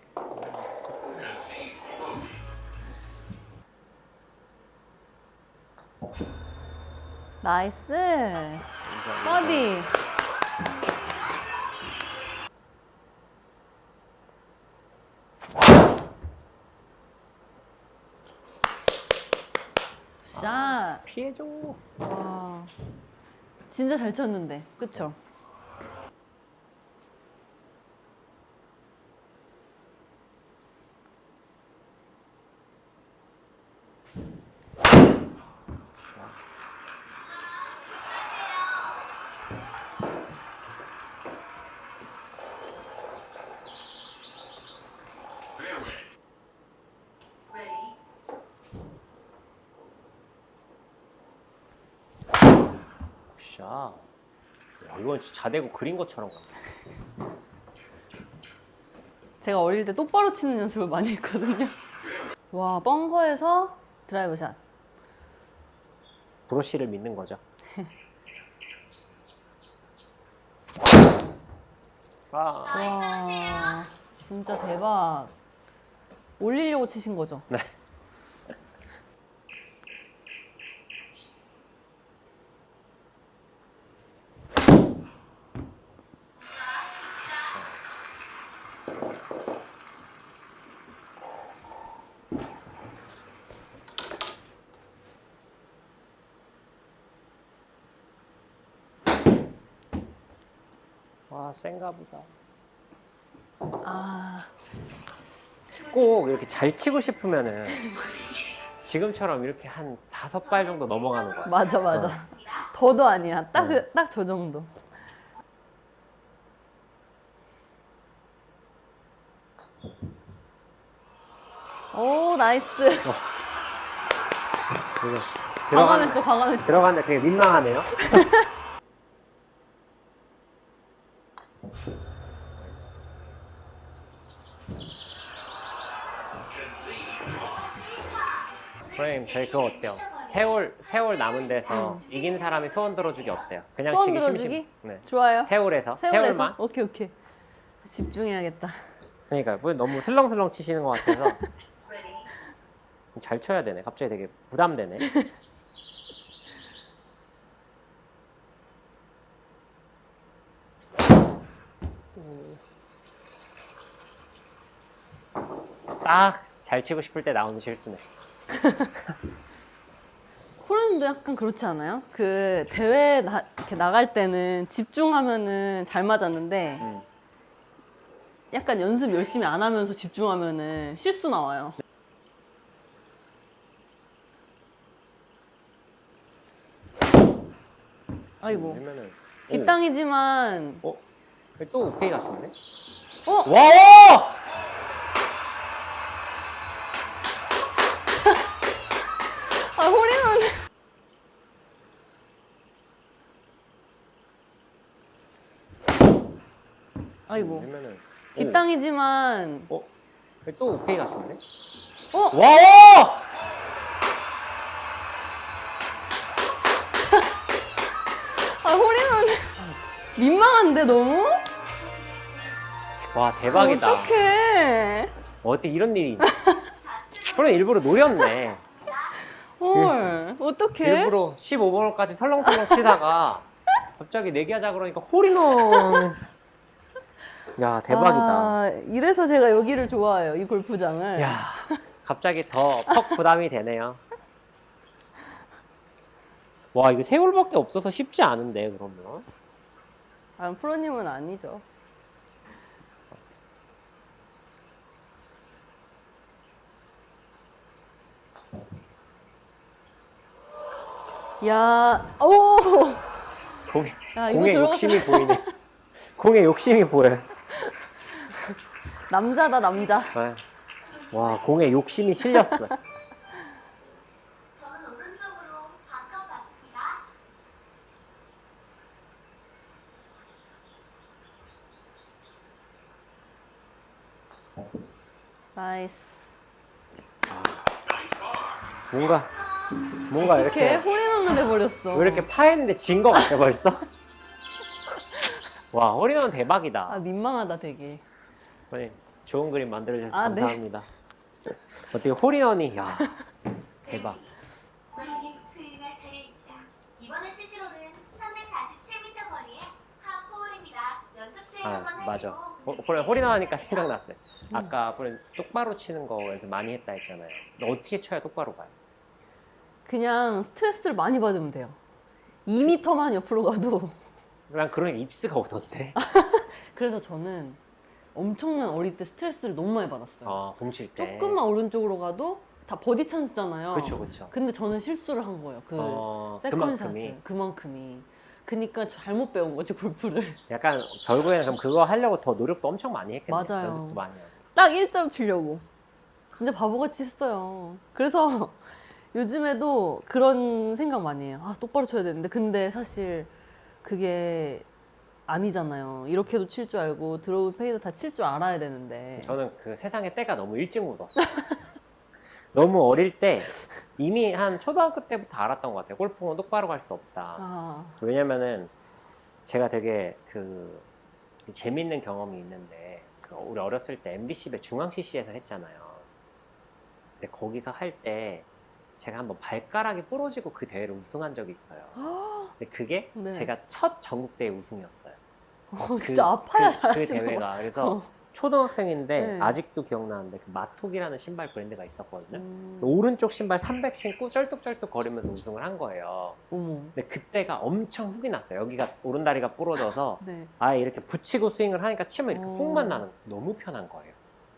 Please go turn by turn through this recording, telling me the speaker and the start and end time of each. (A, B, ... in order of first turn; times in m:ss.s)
0:00.3-0:01.0 A
0:07.4-0:08.7 B
0:08.8-0:09.7 A
0:09.2-0:10.0 B
0:20.2-0:21.0 B
0:20.4-0:21.8 A
0:22.0-0:22.7 B
0:23.7-0:25.2 B
0:36.0-0:36.4 A
0:37.3-0:39.0 C
0:53.4-0:54.1 A
0:54.8-0:56.5 A
0:59.4-1:01.8 B
1:02.5-1:04.6 B
1:06.5-1:07.4 A
1:12.3-1:12.9 A
1:12.7-1:15.3 B
1:12.9-1:13.9 C
1:16.4-1:17.5 B
1:26.4-1:27.3 C
1:27.3-1:27.8 A
1:41.3-1:42.3 A
1:43.8-1:44.5 B
1:45.7-1:47.9 A
1:48.8-1:52.2 A
1:51.4-1:54.8 B
1:51.5-1:52.7 C
1:53.6-1:53.8 A
2:01.9-2:03.1 B
2:05.0-2:08.2 A
2:05.7-2:06.8 B
2:08.0-2:08.5 B
2:12.6-2:13.0 A
2:17.2-2:20.7 C
2:18.9-2:26.6 A
2:21.7-2:22.0 B
2:21.7-2:23.1 C
2:23.9-2:27.2 B
2:27.8-2:28.8 B
2:29.3-2:31.4 A
2:33.2-2:35.1 A
2:42.2-2:42.6 A
2:46.0-2:48.1 A
2:48.5-2:48.9 B
2:50.6-2:56.9 B
2:56.8-2:57.0 A
2:58.5-3:01.8 B
3:08.4-3:08.8 B
3:08.4-3:09.8 A
3:09.5-3:10.8 B
3:11.6-3:12.5 A
3:13.2-3:13.5 B
3:13.4-3:14.4 A
3:19.5-3:20.6 B
3:27.3-3:27.7 B
3:27.3-3:28.6 A
3:28.4-3:29.7 B
3:30.4-3:31.4 A
3:32.3-3:33.2 A
3:38.4-3:41.4 B
3:41.4-3:42.6 C
3:43.1-3:44.2 A
3:43.5-3:45.2 B
3:45.4-3:46.3 A
3:46.2-3:46.7 B
3:46.7-3:49.1 C
3:47.2-3:48.6 A
3:49.2-3:51.2 B
3:49.7-3:50.2 A
3:50.8-3:56.3 A
3:52.5-3:53.0 B
3:55.7-3:56.1 B
3:57.6-3:58.6 A
3:57.9-4:01.8 B
4:01.2-4:04.0 A
4:02.9-4:03.2 B
4:06.7-4:09.3 A
4:10.4-4:11.6 B
4:21.4-4:23.1 B
4:23.7-4:25.4 A
4:24.2-4:25.6 B
4:26.0-4:27.3 A
4:27.5-4:30.2 B
4:30.1-4:30.4 A
4:30.9-4:31.7 C
4:31.1-4:32.8 A
4:32.3-4:32.8 B
4:34.6-4:37.0 C
4:45.6-4:46.3 B
4:47.3-4:47.7 A
4:48.9-4:49.3 A
4:50.1-4:50.9 A
4:50.2-4:52.3 B
4:51.9-4:53.8 A
4:55.7-4:57.0 A
4:56.9-4:58.0 B
4:58.7-5:00.9 A
5:00.1-5:00.6 B
5:01.5-5:03.2 A
5:03.9-5:04.2 A
5:04.9-5:13.7 C
5:11.6-5:18.7 A
5:19.8-5:21.8 B
5:22.5-5:24.0 B
5:24.5-5:26.0 A
5:26.0-5:27.6 B
5:28.1-5:30.4 B
5:30.2-5:31.4 A
5:31.0-5:40.4 B
5:33.7-5:34.3 A
5:35.8-5:37.2 A
5:40.5-5:44.3 A
5:43.3-5:44.0 B
5:44.5-5:45.6 B
5:46.3-5:53.3 B
5:53.8-5:54.7 B
5:55.3-5:59.4 B
5:59.2-6:01.3 A
6:01.2-6:01.5 B
6:02.5-6:07.4 A
6:07.4-6:08.0 B
6:08.0-6:08.7 A
6:09.4-6:10.9 A
6:11.5-6:16.1 A
6:17.2-6:18.5 A
6:19.0-6:22.0 A
6:22.0-6:22.6 B
6:22.6-6:25.2 A
6:23.2-6:23.5 B
6:25.7-6:28.1 B
6:25.8-6:36.4 A
6:29.2-6:29.6 B
6:32.3-6:33.0 B
6:36.5-6:37.0 B
6:37.0-6:44.2 A
6:40.2-6:40.5 B
6:42.3-6:43.0 B